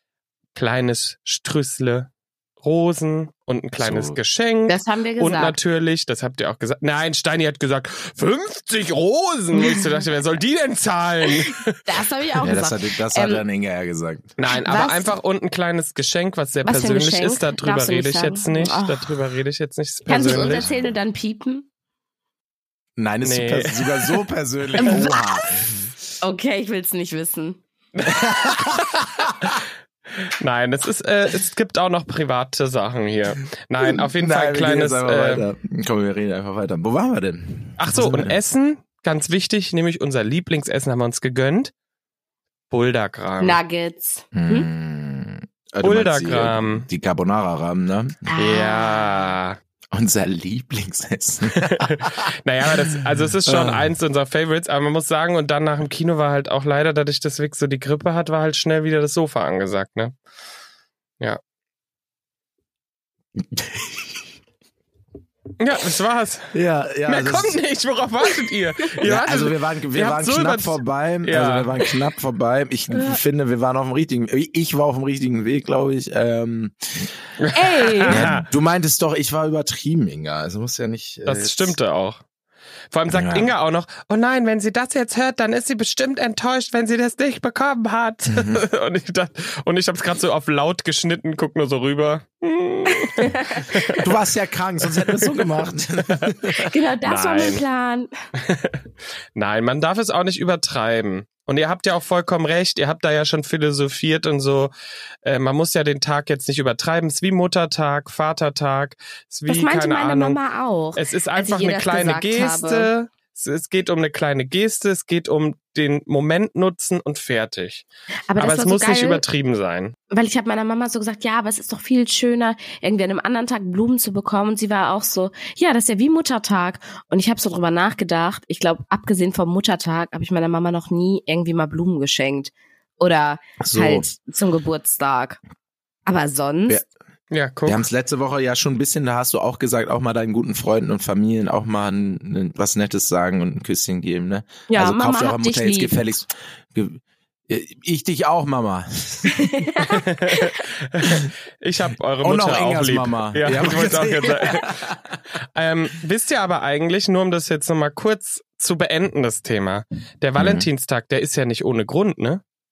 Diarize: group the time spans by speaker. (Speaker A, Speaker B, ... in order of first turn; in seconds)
Speaker A: 0.6-11.8, 14.4-20.7, 23.2-24.2, 24.8-25.0, 30.4-35.5, 37.8-41.7, 42.7-43.6, 45.8-46.9, 48.4-49.6, 51.5-60.1, 65.6-66.5, 67.1-71.9, 77.4-78.5, 81.3-82.2, 82.9-94.0, 95.0-95.4, 96.1-97.6, 98.4-98.8, 99.4-104.7, 105.2-110.4, 111.0-117.9, 118.4-120.0, 137.3-137.8, 149.8-154.8, 155.6-162.4
Speaker B: 3.8-4.2, 12.4-14.3, 20.3-20.9, 23.0-25.9, 28.1-29.6, 33.8-38.4, 44.3-48.3, 49.9-52.2, 53.0-53.9, 63.4-64.1, 66.5-67.6, 69.0-77.1, 78.1-81.8, 83.1-83.5, 88.3-88.6, 94.0-96.7, 133.6-134.1, 137.7-149.9, 152.2-155.2, 160.4-160.7
Speaker C: 4.7-5.6, 9.6-9.9, 11.5-13.4, 14.6-15.2, 16.6-19.2, 20.1-21.7, 24.8-25.4, 26.2-27.6, 43.4-44.7, 48.3-49.3, 72.9-73.2, 77.5-78.3, 93.2-93.9, 96.6-98.1, 109.5-112.9, 118.3-119.2, 120.1-135.4, 136.1-136.8, 144.7-146.0, 149.3-150.4